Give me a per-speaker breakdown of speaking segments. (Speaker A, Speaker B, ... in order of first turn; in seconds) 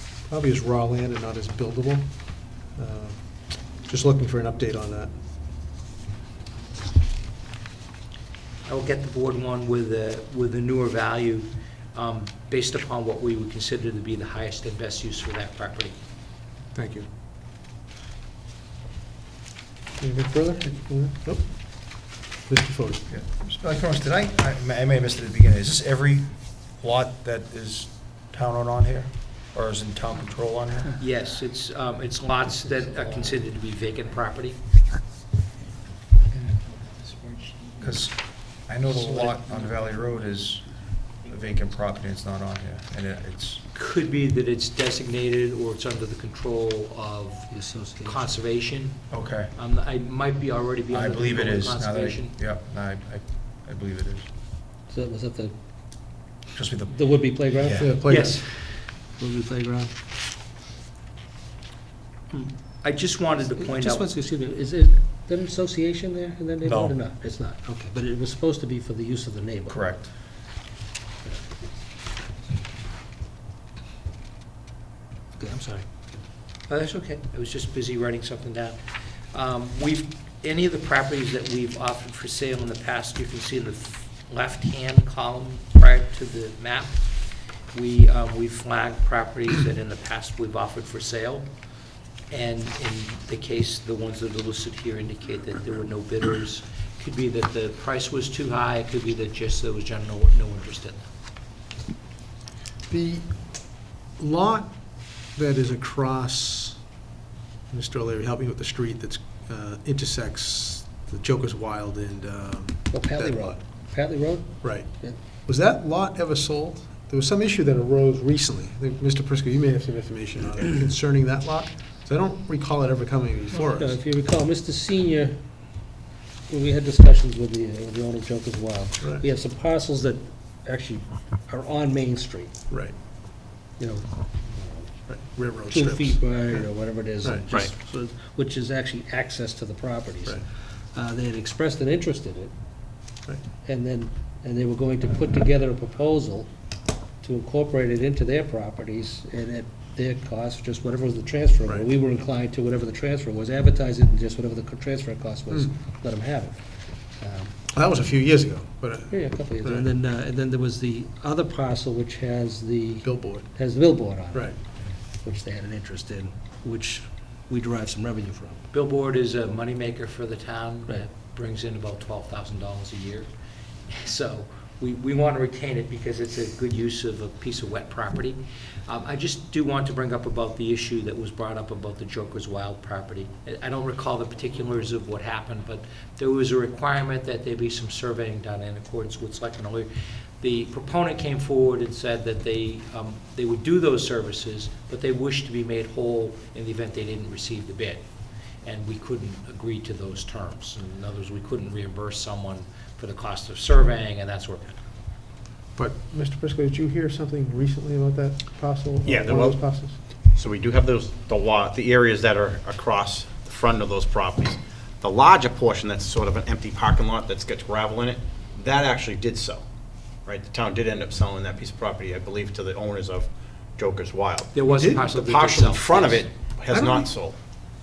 Speaker A: 0.3-5.1, 16.7-17.1, 20.0-21.9, 22.5-23.1, 57.8-58.4, 102.9-106.9, 107.7-113.6, 114.6-124.0, 132.7-132.9, 135.1-136.7, 137.2-137.5, 157.7-159.9, 163.0-163.5, 205.8-210.0, 224.6-225.0, 226.7-227.1
Speaker B: 8.7-16.0, 31.0-34.6, 43.7-52.4, 58.1-58.5, 62.3-64.1, 76.7-78.8, 79.3-87.0, 87.7-91.5, 92.3-101.0, 168.7-173.3, 173.9-204.8, 224.5-226.3
Speaker C: 23.1-31.0, 37.8-43.6, 49.1-49.5, 50.9-54.3, 56.5-57.0, 57.5-57.9, 66.6-67.0, 69.7-70.1
Speaker D: 47.5-48.4, 54.9-55.5, 56.9-57.9, 59.2-59.9, 63.6-69.8, 75.4-75.8, 112.9-115.2, 123.6-125.4, 126.5-132.5, 133.8-135.1, 135.7-140.4, 140.9-142.5, 143.7-146.5, 147.2-157.6, 159.1-164.5, 165.2-168.6
Speaker E: 209.1-209.6, 210.3-219.6, 220.2-227.4